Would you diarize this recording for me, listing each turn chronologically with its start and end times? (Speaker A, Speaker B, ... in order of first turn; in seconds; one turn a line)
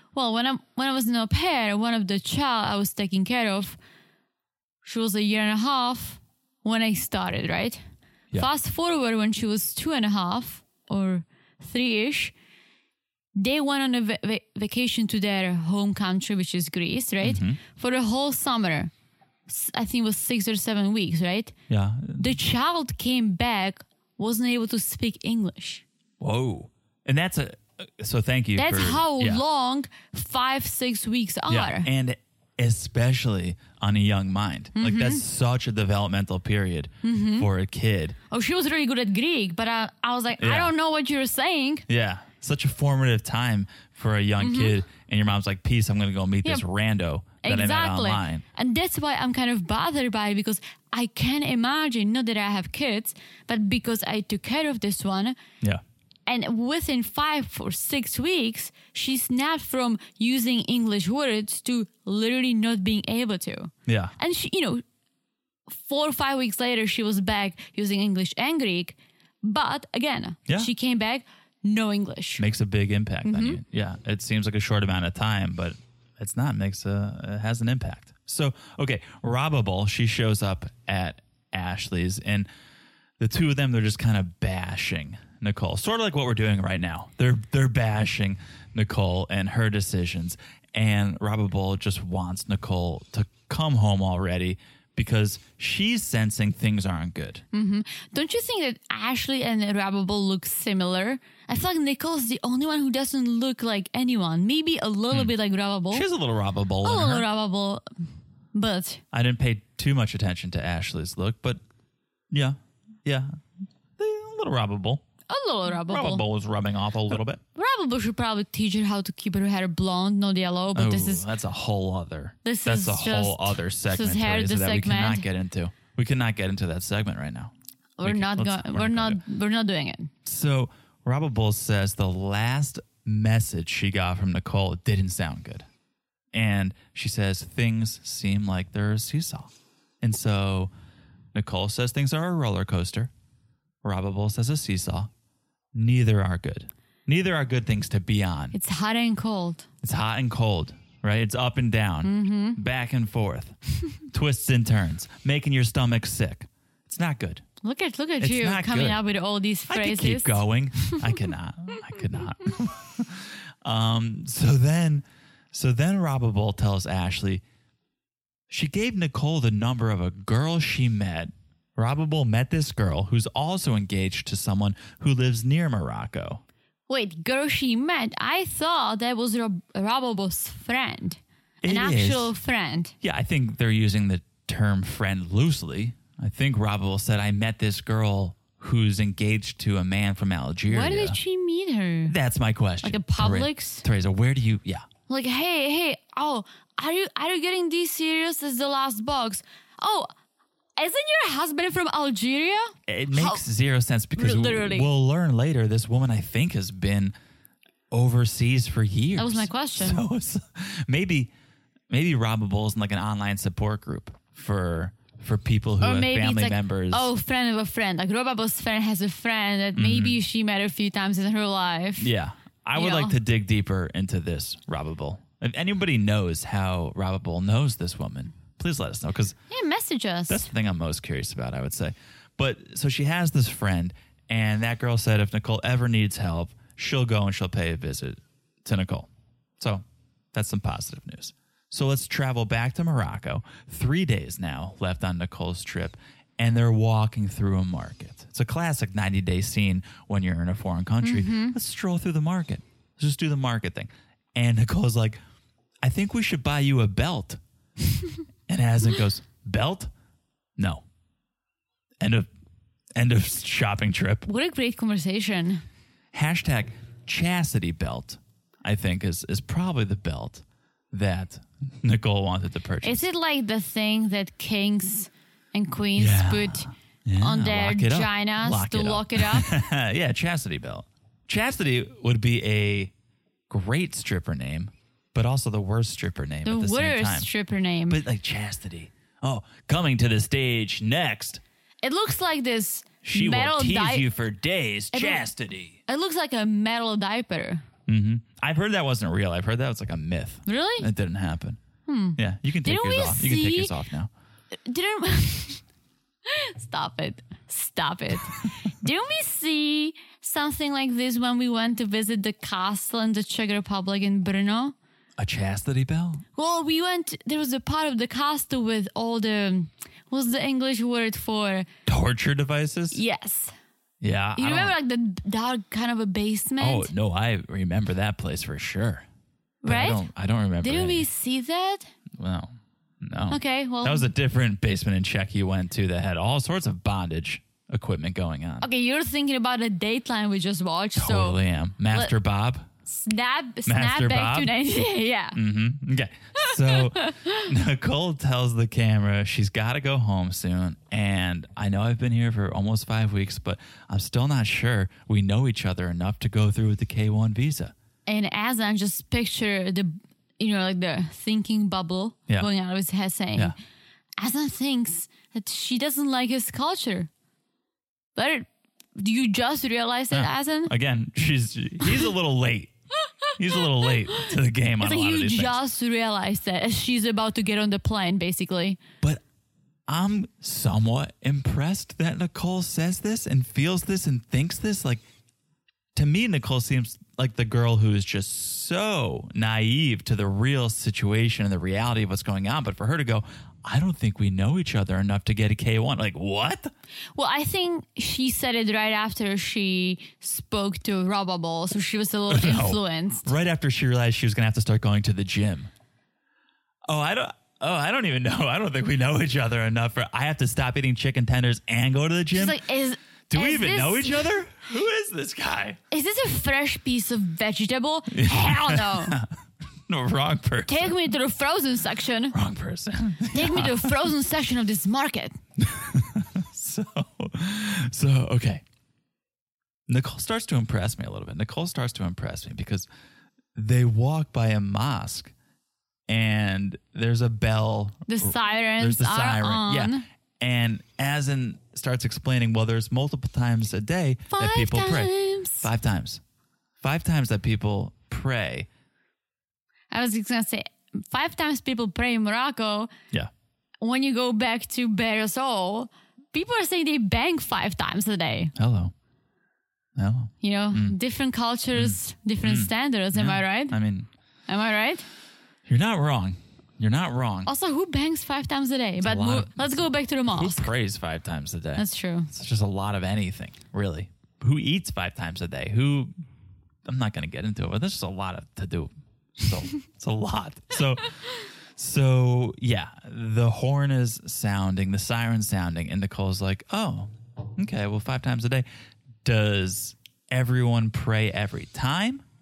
Speaker A: 0.1-3.8
Speaker A: 4.8-7.8
Speaker A: 8.3-12.3
Speaker A: 13.3-18.9
Speaker B: 17.2-17.6
Speaker A: 19.5-21.5
Speaker B: 21.7-22.3
Speaker A: 22.1-25.8
Speaker B: 26.2-29.4
Speaker A: 28.6-31.9
Speaker B: 31.5-38.2
Speaker A: 34.8-35.2
Speaker A: 37.0-37.5
Speaker A: 38.3-41.9
Speaker B: 40.4-40.7
Speaker B: 41.9-48.4
Speaker A: 44.4-44.8
Speaker A: 47.4-55.4
Speaker A: 56.3-64.8
Speaker B: 63.9-64.1
Speaker A: 65.7-72.4
Speaker B: 72.4-82.5
Speaker A: 73.2-73.6
Speaker B: 83.2-97.4
Speaker A: 97.5-106.0
Speaker B: 105.9-107.3
Speaker A: 106.8-107.8
Speaker A: 108.5-109.0
Speaker B: 109.1-111.6
Speaker B: 112.3-113.4
Speaker B: 114.0-115.0
Speaker A: 115.3-116.2
Speaker B: 115.8-117.4
Speaker A: 117.5-121.2
Speaker B: 120.7-127.5
Speaker A: 122.4-125.2
Speaker A: 128.0-130.1
Speaker B: 128.0-129.2
Speaker B: 130.2-135.7
Speaker B: 136.3-140.7
Speaker B: 141.3-143.1
Speaker B: 143.8-145.1
Speaker B: 145.7-148.5
Speaker A: 148.5-149.7
Speaker B: 149.8-157.4
Speaker A: 152.0-152.6
Speaker A: 157.6-161.1
Speaker B: 158.2-159.0
Speaker B: 159.7-167.4
Speaker B: 168.5-176.4
Speaker A: 176.9-182.9
Speaker B: 181.6-182.3
Speaker B: 183.0-191.2
Speaker A: 190.7-192.1
Speaker B: 192.1-194.9
Speaker A: 192.8-193.8
Speaker A: 195.1-200.1
Speaker A: 200.8-203.4
Speaker B: 202.9-207.1
Speaker A: 204.2-204.9
Speaker B: 207.9-211.3
Speaker A: 209.2-210.0
Speaker B: 211.9-217.1
Speaker A: 215.8-222.1
Speaker B: 219.8-220.2
Speaker B: 222.0-229.4
Speaker A: 222.7-223.1
Speaker A: 229.5-230.5
Speaker B: 230.3-255.2
Speaker A: 251.0-251.6
Speaker B: 255.8-257.4
Speaker B: 258.5-259.9
Speaker B: 260.6-260.8
Speaker B: 262.0-262.3
Speaker B: 262.9-264.3
Speaker A: 264.2-265.6
Speaker B: 266.1-273.1
Speaker A: 272.8-276.7
Speaker B: 275.9-282.9
Speaker A: 277.2-279.5
Speaker B: 283.5-287.3
Speaker A: 286.4-288.0
Speaker B: 287.9-291.4
Speaker A: 291.8-294.0
Speaker B: 293.0-295.8
Speaker A: 294.9-295.2
Speaker A: 295.9-297.6
Speaker B: 297.9-301.6
Speaker A: 300.5-300.9
Speaker A: 301.9-303.7
Speaker B: 302.1-304.1
Speaker A: 304.6-305.6
Speaker A: 306.2-314.7
Speaker B: 315.2-316.2
Speaker A: 316.4-321.7
Speaker B: 321.9-323.0
Speaker A: 322.9-323.5
Speaker B: 324.0-324.7
Speaker A: 324.4-326.9
Speaker B: 326.6-329.1
Speaker A: 329.6-330.0
Speaker B: 329.6-331.1
Speaker A: 330.6-331.9
Speaker B: 332.1-338.6
Speaker A: 333.3-334.1
Speaker A: 338.6-341.4
Speaker B: 340.9-342.7
Speaker A: 342.9-345.4
Speaker B: 343.6-344.5
Speaker B: 345.3-357.7
Speaker A: 346.4-347.5
Speaker A: 358.1-363.5
Speaker A: 364.2-367.1
Speaker A: 368.1-370.7
Speaker B: 370.1-372.7
Speaker B: 373.4-375.6
Speaker A: 374.8-378.8
Speaker B: 379.9-385.0
Speaker B: 385.9-396.7
Speaker A: 397.1-403.3
Speaker B: 402.3-405.7
Speaker B: 406.9-412.6
Speaker A: 412.3-414.3
Speaker B: 413.3-415.8
Speaker A: 415.9-419.2
Speaker B: 418.1-419.3
Speaker B: 419.9-421.0
Speaker A: 420.7-422.3
Speaker B: 422.3-424.0
Speaker A: 423.3-425.4
Speaker B: 425.6-428.6
Speaker B: 429.9-432.9
Speaker B: 433.5-435.3
Speaker B: 436.1-446.2
Speaker A: 438.1-440.0
Speaker A: 444.3-445.7
Speaker B: 446.8-448.7
Speaker A: 449.9-452.9
Speaker A: 453.8-458.5
Speaker B: 458.6-458.9
Speaker B: 460.0-460.9
Speaker A: 460.4-463.8
Speaker B: 461.8-464.1
Speaker A: 464.5-465.0
Speaker B: 465.6-467.5
Speaker A: 467.4-470.7
Speaker B: 469.0-476.1
Speaker A: 471.8-472.3
Speaker B: 476.8-488.6
Speaker B: 489.2-492.2